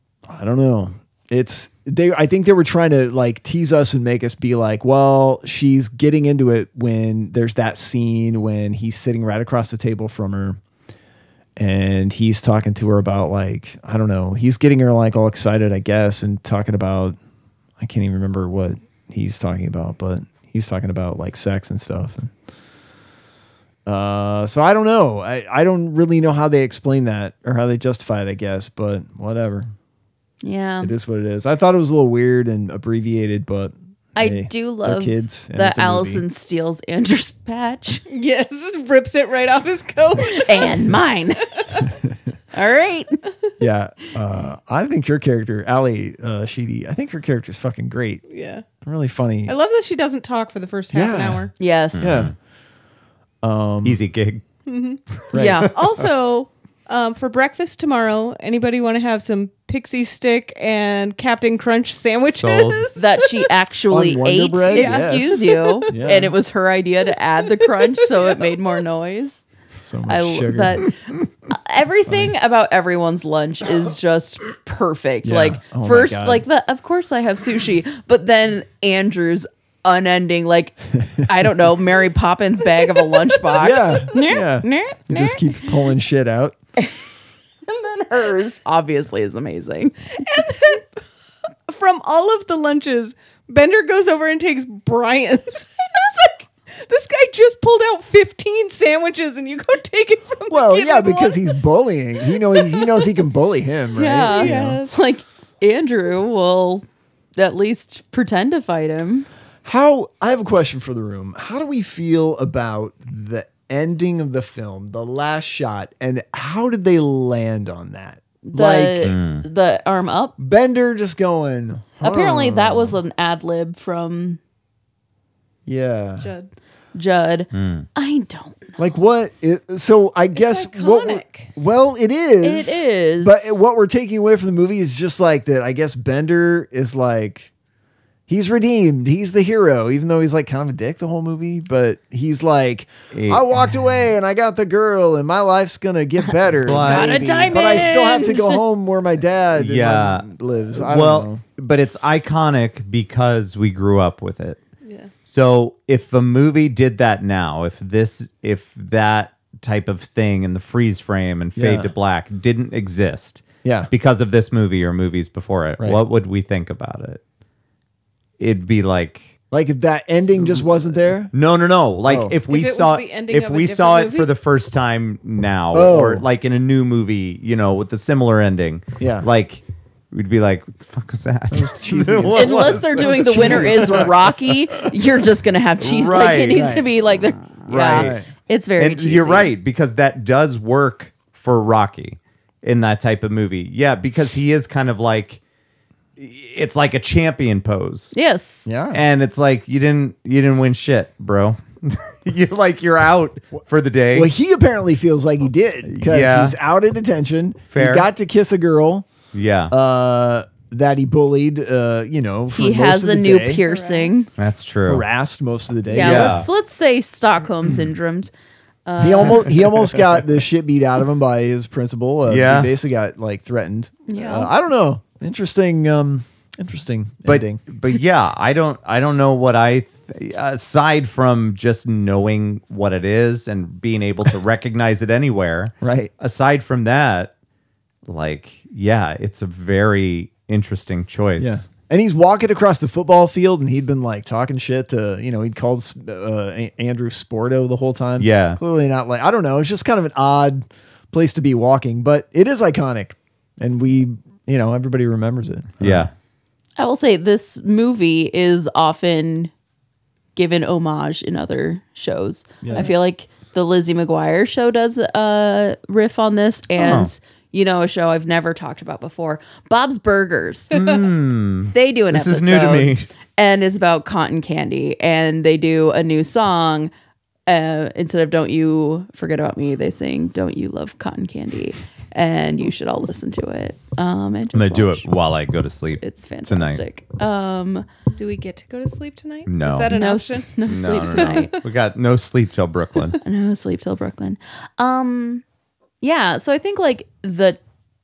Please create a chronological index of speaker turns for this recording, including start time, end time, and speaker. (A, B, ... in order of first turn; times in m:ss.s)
0:00.3-0:10.6 A
0:11.6-0:17.2 A
0:17.8-0:22.3 A
0:23.8-0:29.7 A
0:30.4-0:30.9 B
0:30.8-0:36.2 A
0:34.1-0:38.0 B
0:38.1-0:40.8 C
0:40.3-0:41.5 B
0:42.5-0:43.2 B
0:43.6-0:48.2 A
0:48.3-0:48.6 C
0:48.8-0:49.6 A
0:49.5-0:51.5 C
0:50.9-0:52.3 A
0:51.6-0:52.2 B
0:52.0-0:52.3 D
0:53.4-0:54.0 A
0:53.8-0:54.4 D
0:54.7-0:55.0 C
0:55.3-0:55.7 A
0:55.3-0:55.7 B
0:55.7-1:03.4 C
1:02.3-1:02.8 D
1:03.0-1:09.4 B
1:03.9-1:06.3 A
1:04.7-1:05.9 C
1:09.7-1:10.9 A
1:10.1-1:11.0 B
1:11.5-1:25.6 B
1:12.0-1:12.3 A
1:15.2-1:16.4 A
1:23.5-1:26.6 A
1:27.7-1:30.2 B
1:30.2-1:30.8 C
1:31.7-1:41.6 C
1:40.5-1:44.8 A
1:42.3-1:43.1 C
1:44.0-1:46.8 B
1:44.3-1:45.0 C
1:47.4-1:49.3 B
1:49.6-1:59.1 A
1:58.5-2:00.3 B
1:59.0-1:59.4 D
2:00.4-2:03.0 A
2:02.0-2:04.4 B
2:05.6-2:06.3 A
2:06.2-2:06.5 C
2:06.9-2:08.9 B
2:07.5-2:07.8 D
2:08.8-2:17.5 A
2:10.3-2:11.5 C
2:12.4-2:13.6 B
2:18.3-2:31.4 A
2:23.1-2:23.4 D
2:26.6-2:27.4 D
2:26.7-2:28.6 B
2:29.6-2:34.6 D
2:34.8-2:35.1 C
2:35.2-2:47.2 D
2:41.6-2:41.9 A
2:43.6-2:43.9 A
2:48.4-2:49.3 D
2:49.5-2:51.3 A
2:50.2-3:04.0 D
2:52.0-2:52.3 A
2:52.5-2:54.3 C
2:55.7-2:56.2 A
2:59.0-2:59.3 A
3:01.5-3:04.3 A
3:02.3-3:09.5 B
3:05.8-3:06.7 D
3:06.5-3:06.9 A
3:07.6-3:08.2 D
3:07.7-3:08.3 A
3:08.8-3:15.4 D
3:16.2-3:18.2 D
3:18.1-3:18.7 B
3:18.6-3:19.0 A
3:18.9-3:24.3 D
3:24.1-3:29.0 A
3:25.8-3:26.6 D
3:27.7-3:28.1 D
3:29.3-3:29.7 D
3:29.7-3:33.6 A
3:32.6-3:34.3 B
3:33.6-3:34.3 C
3:34.4-3:35.0 D
3:34.9-3:36.4 A
3:35.9-3:38.3 B
3:35.9-3:36.5 D
3:38.8-3:39.6 B
3:39.0-3:47.6 A
3:42.3-3:42.7 D
3:44.1-3:44.5 B
3:47.2-3:57.3 D
3:55.8-3:56.1 A
3:58.1-4:01.6 D
4:01.4-4:16.1 A
4:08.2-4:08.6 D
4:15.8-4:16.1 D
4:16.8-4:19.5 B
4:20.4-4:30.8 B
4:22.6-4:22.9 A
4:26.8-4:27.1 D
4:30.7-4:33.1 D
4:31.7-4:36.9 B
4:37.5-4:45.0 B
4:44.5-4:46.8 D
4:46.0-4:47.8 B
4:48.2-4:50.5 C
4:49.4-4:49.9 D
4:49.9-4:51.5 B
4:50.7-4:53.2 D
4:51.1-4:51.5 C
4:53.2-4:55.4 B
4:56.0-4:57.6 B